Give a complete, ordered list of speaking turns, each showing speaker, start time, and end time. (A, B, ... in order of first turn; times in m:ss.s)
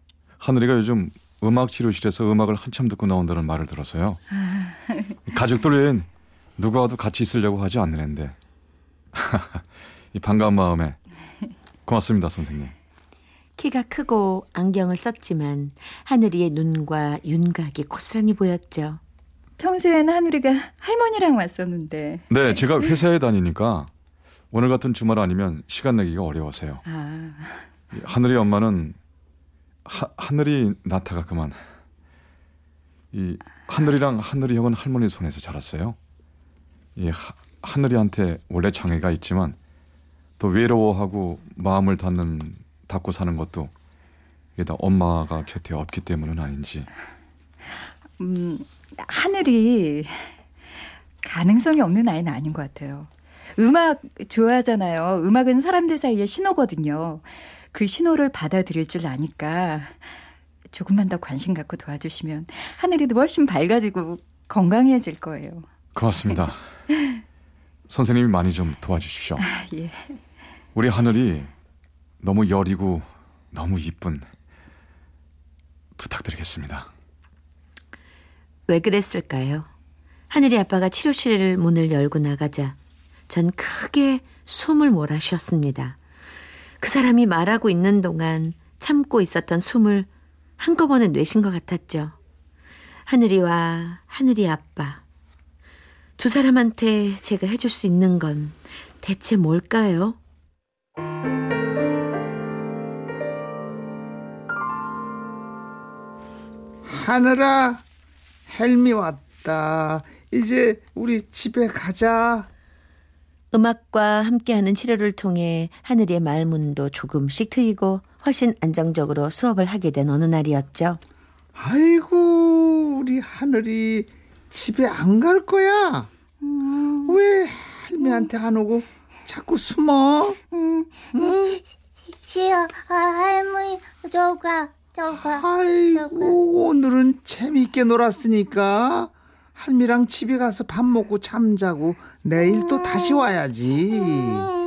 0:00.4-0:04.2 A
0:04.3-0:05.2 B
0:05.3-0:08.4 A
0:09.1-0:09.6 A
0:10.1-0:11.0 A
0:11.8-0:12.7 A
0:13.6-0:19.0 C
0:19.6-0:22.8 B
0:22.3-0:23.9 A
0:24.5-0:26.8 A
0:26.8-0:27.7 B
0:27.9-0:29.0 A
0:29.8-0:31.6 A
0:33.1-0:36.0 A
0:37.0-0:39.6 A
0:40.4-0:43.7 A
0:44.6-0:46.9 A
0:48.2-0:50.3 B
0:51.2-1:00.0 B
1:00.7-1:05.6 B
1:05.9-1:06.6 A
1:07.9-1:09.4 A
1:09.4-1:10.2 B
1:10.7-1:11.5 A
1:12.2-1:14.3 A
1:16.0-1:16.9 A
1:18.7-1:19.7 C
1:20.3-1:22.8 C
1:23.3-1:26.0 C
1:26.8-1:32.2 C
1:33.1-1:35.0 C
1:36.2-1:40.2 C
1:46.8-1:47.8 D
1:48.5-1:52.5 D
1:53.5-2:01.0 C
2:01.6-2:06.1 D
2:06.6-2:06.8 B
2:07.0-2:10.4 D
2:11.1-2:11.6 D
2:12.3-2:15.1 E
2:15.0-2:24.6 D